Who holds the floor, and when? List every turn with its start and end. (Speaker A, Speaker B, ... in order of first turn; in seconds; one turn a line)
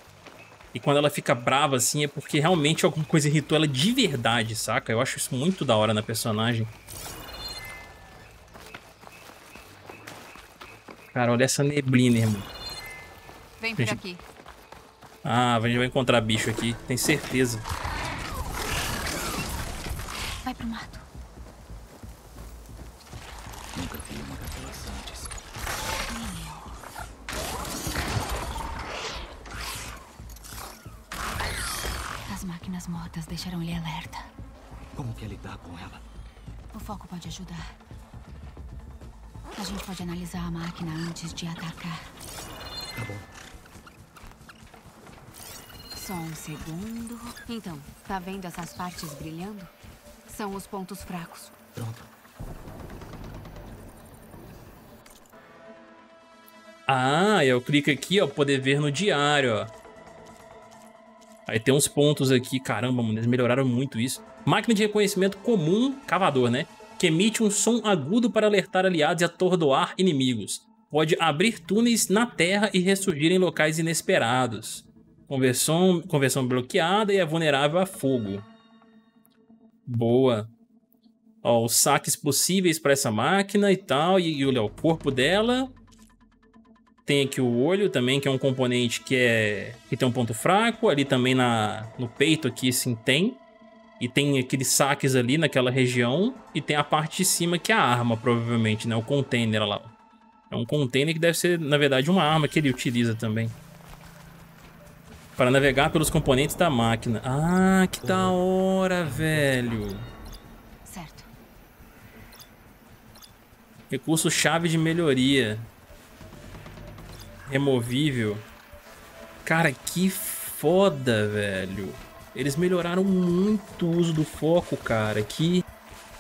Speaker A: 0.7-6.7
Speaker A: 11.1-12.5
Speaker B: 13.6-14.2
Speaker A: 15.2-17.6
Speaker B: 20.4-21.1
Speaker C: 23.8-25.4
Speaker B: 26.1-26.8
Speaker B: 32.3-34.3
Speaker C: 34.9-36.0
Speaker B: 36.7-37.7
Speaker B: 39.6-42.1
Speaker C: 42.9-43.3
Speaker B: 46.0-49.7
Speaker B: 50.3-51.5
Speaker C: 51.8-52.1
Speaker A: 56.9-59.7
Speaker A: 61.5-78.5
Speaker A: 79.9-80.5
Speaker A: 81.4-85.7
Speaker A: 87.0-93.4
Speaker A: 94.0-99.9
Speaker A: 100.5-103.5
Speaker A: 105.4-110.1
Speaker C: 108.0-108.4
Speaker C: 109.0-109.8
Speaker B: 110.8-111.3
Speaker A: 113.9-115.7
Speaker A: 117.5-118.5
Speaker A: 119.4-125.6